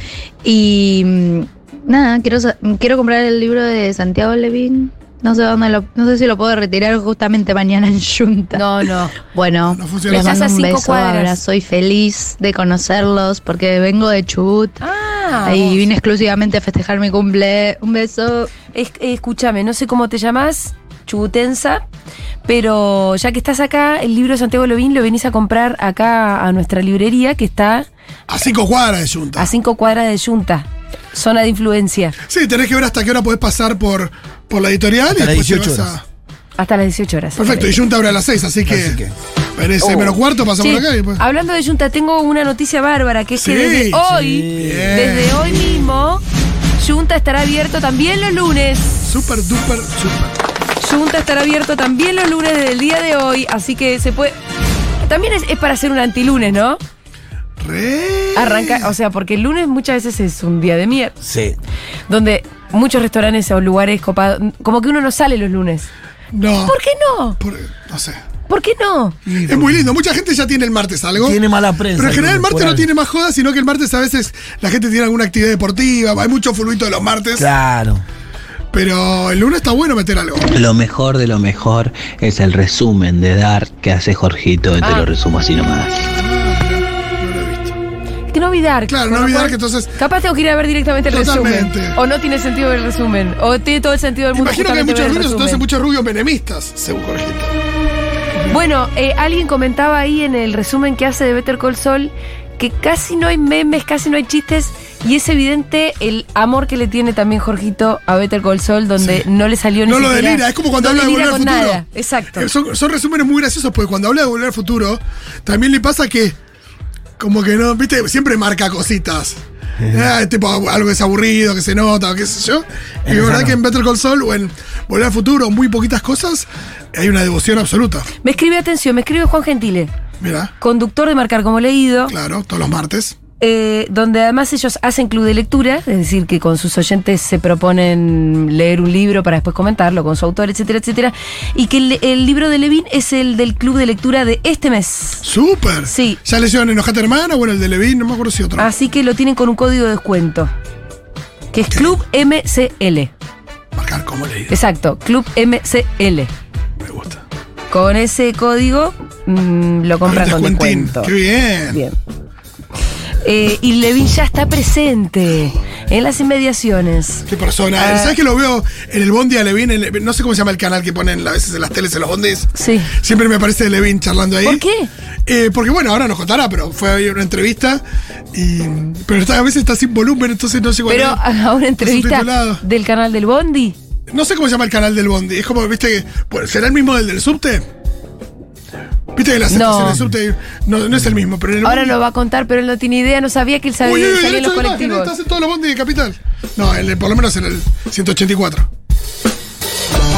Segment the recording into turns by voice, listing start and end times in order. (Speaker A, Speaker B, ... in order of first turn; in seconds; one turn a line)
Speaker A: 0.4-14.8
Speaker B: 8.5-9.2
Speaker C: 9.7-10.4
Speaker B: 10.1-11.4
Speaker B: 14.8-15.8
Speaker A: 15.4-18.5
Speaker B: 18.7-21.8
Speaker B: 22.5-27.9
Speaker C: 28.3-29.5
Speaker B: 29.4-32.1
Speaker C: 32.3-36.0
Speaker D: 35.1-35.9
Speaker B: 36.6-37.8
Speaker C: 37.4-39.0
Speaker D: 38.7-39.1
Speaker C: 39.6-41.2
Speaker B: 39.8-46.2
Speaker C: 43.4-45.6
Speaker D: 44.0-45.1
Speaker B: 46.8-49.0
Speaker C: 49.0-50.3
Speaker B: 50.8-54.4
Speaker B: 55.0-56.8
Speaker C: 57.6-58.9
Speaker B: 58.4-61.1
Speaker D: 61.2-61.6
Speaker B: 62.1-65.9
Speaker C: 66.3-66.8
Speaker B: 66.7-67.4
Speaker C: 67.4-68.2
Speaker B: 68.5-69.2
Speaker D: 69.3-69.9
Speaker C: 69.4-71.4
Speaker D: 71.2-72.9
Speaker C: 71.9-77.5
Speaker D: 77.3-78.0
Speaker C: 78.7-80.5
Speaker E: 80.6-81.8
Speaker E: 82.6-85.8
Speaker B: 84.8-85.1
Speaker C: 86.0-87.8
Speaker B: 88.3-95.6
Speaker C: 88.9-89.9
Speaker C: 91.1-92.0
Speaker C: 94.3-97.5
Speaker B: 98.5-112.5
Speaker C: 109.0-109.2
Speaker C: 109.8-111.8
Speaker C: 112.3-116.4
Speaker C: 117.2-128.1
Speaker D: 119.8-120.1
Speaker D: 123.1-123.6
Speaker B: 128.2-129.9
Speaker C: 130.2-130.5
Speaker B: 130.6-132.1
Speaker C: 132.1-133.2
Speaker B: 133.4-145.2
Speaker C: 145.2-148.7
Speaker B: 145.9-146.2
Speaker B: 148.6-150.5
Speaker B: 151.5-153.1
Speaker C: 153.8-154.6
Speaker B: 154.5-156.3
Speaker C: 156.8-157.2
Speaker B: 157.7-161.1
Speaker C: 160.1-161.8
Speaker B: 161.7-162.0
Speaker B: 163.2-167.3
Speaker C: 167.3-174.6
Speaker B: 167.8-168.2
Speaker B: 172.5-172.9
Speaker B: 174.4-174.9
Speaker C: 175.3-177.8
Speaker C: 178.3-181.2
Speaker B: 180.9-183.8
Speaker C: 181.8-182.6
Speaker C: 184.1-187.7
Speaker C: 189.1-191.9
Speaker B: 189.5-190.0
Speaker B: 191.6-195.1
Speaker C: 193.8-198.7